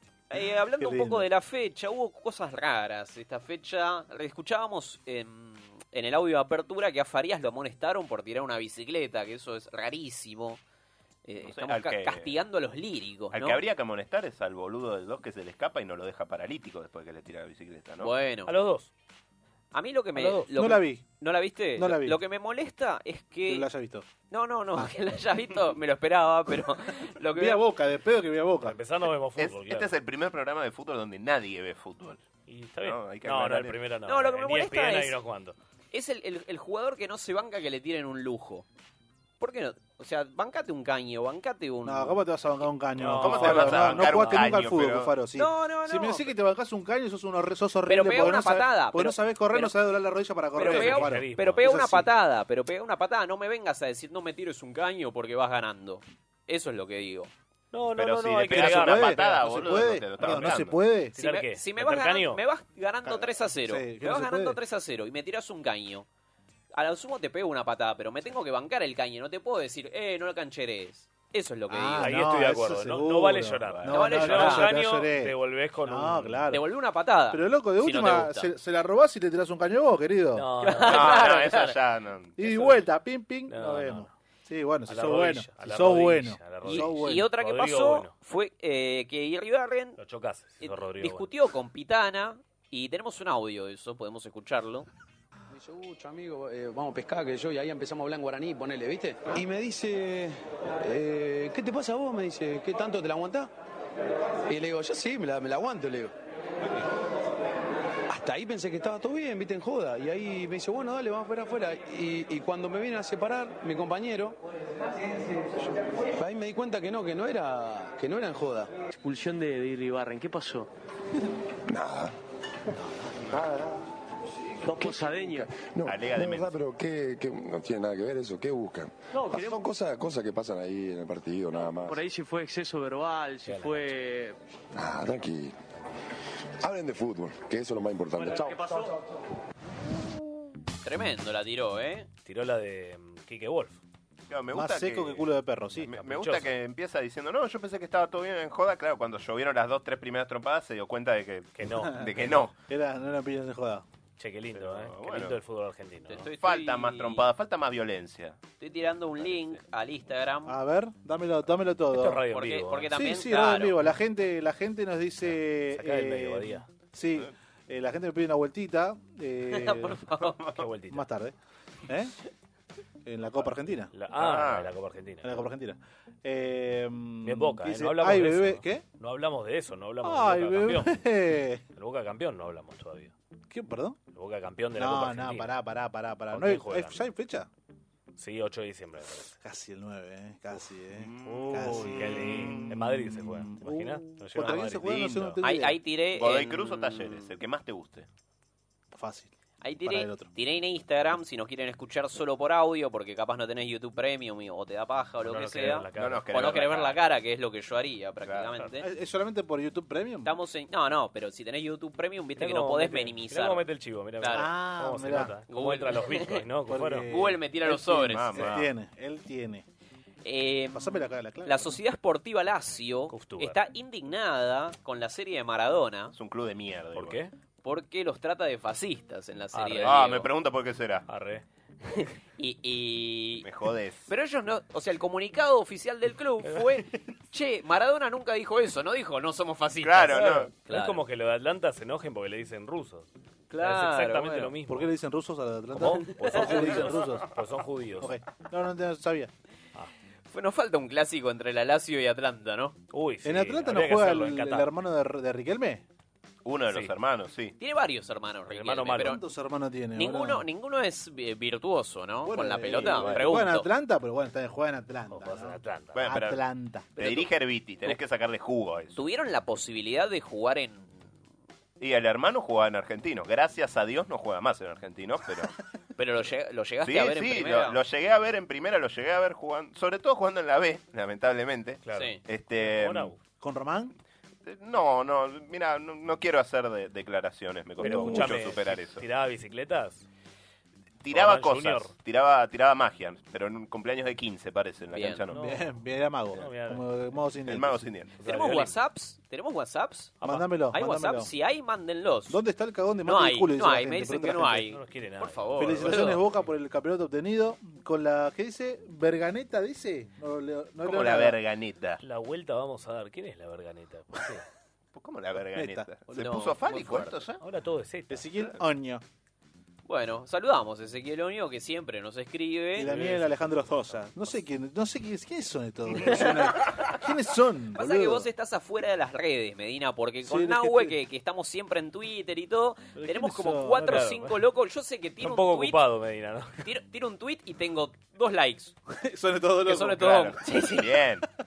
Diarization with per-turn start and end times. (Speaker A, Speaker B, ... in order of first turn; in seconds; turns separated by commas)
Speaker A: 0.3-10.6, Speaker B: 0.8-1.3, Speaker A: 11.2-13.6, Speaker C: 11.4-12.4, Speaker C: 13.3-18.1, Speaker A: 18.0-18.5, Speaker D: 18.5-18.9, Speaker A: 19.7-23.7, Speaker D: 20.2-20.5, Speaker B: 20.5-21.1, Speaker B: 21.8-22.2, Speaker B: 23.5-24.1, Speaker A: 24.3-27.6, Speaker B: 27.3-28.8, Speaker D: 28.6-29.9, Speaker C: 29.4-32.2, Speaker D: 32.5-35.6, Speaker C: 32.8-33.8, Speaker A: 34.1-35.1, Speaker A: 35.9-38.6, Speaker A: 39.4-42.2, Speaker B: 41.8-52.1, Speaker D: 43.0-44.6, Speaker C: 43.2-45.1, Speaker A: 45.4-46.3, Speaker A: 47.9-49.7, Speaker A: 50.5-57.3, Speaker D: 50.6-51.7, Speaker D: 57.7-60.6, Speaker C: 57.9-60.8, Speaker B: 58.5-61.1, Speaker D: 61.1-62.4, Speaker A: 61.2-66.1, Speaker B: 63.0-64.6, Speaker A: 66.7-72.1, Speaker B: 71.7-76.6, Speaker D: 72.0-76.5, Speaker A: 73.9-74.7, Speaker A: 76.5-78.5, Speaker B: 77.3-80.5, Speaker D: 80.3-81.2, Speaker A: 80.6-81.8, Speaker C: 80.8-82.4, Speaker B: 82.4-87.3, Speaker D: 82.5-82.8, Speaker D: 83.5-84.1, Speaker D: 84.9-88.1, Speaker A: 86.7-90.0, Speaker D: 90.0-91.3, Speaker A: 90.6-94.9, Speaker E: 95.5-103.5, Speaker E: 104.5-106.1, Speaker E: 108.1-114.4, Speaker E: 116.1-118.7, Speaker F: 119.0-120.7, Speaker G: 121.7-122.1, Speaker G: 123.3-123.8, Speaker F: 124.7-125.5, Speaker G: 124.7-132.0, Speaker C: 125.9-126.6, Speaker F: 129.2-129.7, Speaker F: 131.7-134.4, Speaker D: 133.4-133.9, Speaker G: 134.7-135.6, Speaker G: 136.6-138.8, Speaker F: 138.3-138.9, Speaker A: 140.8-142.1, Speaker D: 142.2-143.8, Speaker C: 144.3-145.3, Speaker B: 144.5-145.9, Speaker D: 145.8-146.5, Speaker C: 145.9-152.5, Speaker D: 151.6-152.4, Speaker B: 151.8-153.9, Speaker D: 154.2-156.3, Speaker C: 154.6-155.4, Speaker A: 156.1-157.3, Speaker C: 156.4-158.4, Speaker A: 158.6-160.6, Speaker B: 160.5-162.2, Speaker D: 161.9-162.9, Speaker A: 162.3-163.8, Speaker B: 162.9-170.0, Speaker D: 165.2-166.7, Speaker A: 169.5-170.4, Speaker D: 170.6-171.1, Speaker B: 170.9-171.4, Speaker B: 171.9-172.1, Speaker B: 173.1-173.9, Speaker D: 173.9-175.5, Speaker C: 174.2-174.7, Speaker B: 175.2-178.8, Speaker D: 177.2-181.0, Speaker B: 180.0-181.6, Speaker D: 181.8-183.1, Speaker B: 183.5-184.0, Speaker D: 184.1-185.6, Speaker B: 184.8-187.5, Speaker D: 186.3-187.0, Speaker D: 188.2-189.4, Speaker B: 189.4-195.8, Speaker C: 191.0-192.7, Speaker D: 191.2-195.3, Speaker C: 194.8-195.2, Speaker A: 195.4-197.2, Speaker C: 196.2-198.1, Speaker B: 198.9-200.3, Speaker A: 199.6-208.9, Speaker D: 205.2-206.9, Speaker C: 205.9-206.9, Speaker C: 208.2-208.6, Speaker B: 208.8-210.3, Speaker A: 210.2-213.6, Speaker D: 212.4-217.1, Speaker A: 214.2-214.5, Speaker B: 214.3-215.3, Speaker A: 215.5-216.4, Speaker B: 216.7-219.7, Speaker A: 217.1-218.5, Speaker C: 218.0-218.7, Speaker A: 220.2-220.9, Speaker B: 220.7-221.8, Speaker A: 221.4-226.1, Speaker D: 223.1-223.6, Speaker C: 226.1-227.2, Speaker D: 226.9-227.3, Speaker A: 227.6-230.3, Speaker D: 229.5-230.1, Speaker C: 229.8-231.1, Speaker D: 231.1-231.4, Speaker A: 232.4-233.5, Speaker C: 233.4-234.0, Speaker A: 234.1-241.0, Speaker D: 236.4-236.8, Speaker C: 239.8-240.5, Speaker D: 240.2-244.9, Speaker A: 243.5-244.5, Speaker B: 244.7-247.3, Speaker D: 245.7-248.1, Speaker B: 248.0-249.3, Speaker A: 250.3-252.8, Speaker D: 252.9-254.7, Speaker B: 253.2-255.8, Speaker C: 256.4-257.6, Speaker A: 257.6-259.2, Speaker D: 258.5-259.2, Speaker B: 258.9-260.4, Speaker A: 260.0-263.7, Speaker B: 262.2-266.9, Speaker D: 262.9-263.3, Speaker D: 265.1-266.2, Speaker C: 265.9-266.4, Speaker A: 267.0-267.3, Speaker C: 267.0-269.0, Speaker A: 268.9-271.1, Speaker C: 271.8-275.5, Speaker A: 276.0-277.8, Speaker C: 276.8-283.1, Speaker D: 281.9-283.2, Speaker A: 281.9-282.2, Speaker B: 283.4-283.9, Speaker C: 284.4-289.1, Speaker D: 287.8-290.1, Speaker B: 287.8-288.4, Speaker C: 291.0-295.4, Speaker D: 291.1-291.9, Speaker A: 294.9-295.2, Speaker D: 295.3-295.7, Speaker B: 295.3-297.9, Speaker D: 296.4-297.0, Speaker C: 297.5-298.1, Speaker D: 298.2-298.8, Speaker A: 298.2-302.4, Speaker B: 300.2-301.3, Speaker B: 302.3-304.7, Speaker A: 303.1-306.2, Speaker D: 304.7-306.0, Speaker B: 305.6-311.4, Speaker C: 310.8-312.0, Speaker D: 312.0-314.4, Speaker C: 314.9-317.4, Speaker B: 315.4-315.9, Speaker A: 316.1-317.2, Speaker D: 317.4-318.3, Speaker B: 318.1-319.0, Speaker A: 319.9-322.9, Speaker B: 322.8-328.3, Speaker D: 322.8-323.9, Speaker A: 326.1-326.4, Speaker A: 327.8-335.8, Speaker B: 330.2-331.0, Speaker B: 333.0-334.1, Speaker D: 333.9-334.4, Speaker D: 335.2-336.7, Speaker A: 336.6-338.8, Speaker B: 338.9-340.3, Speaker A: 339.7-340.8, Speaker C: 340.0-341.2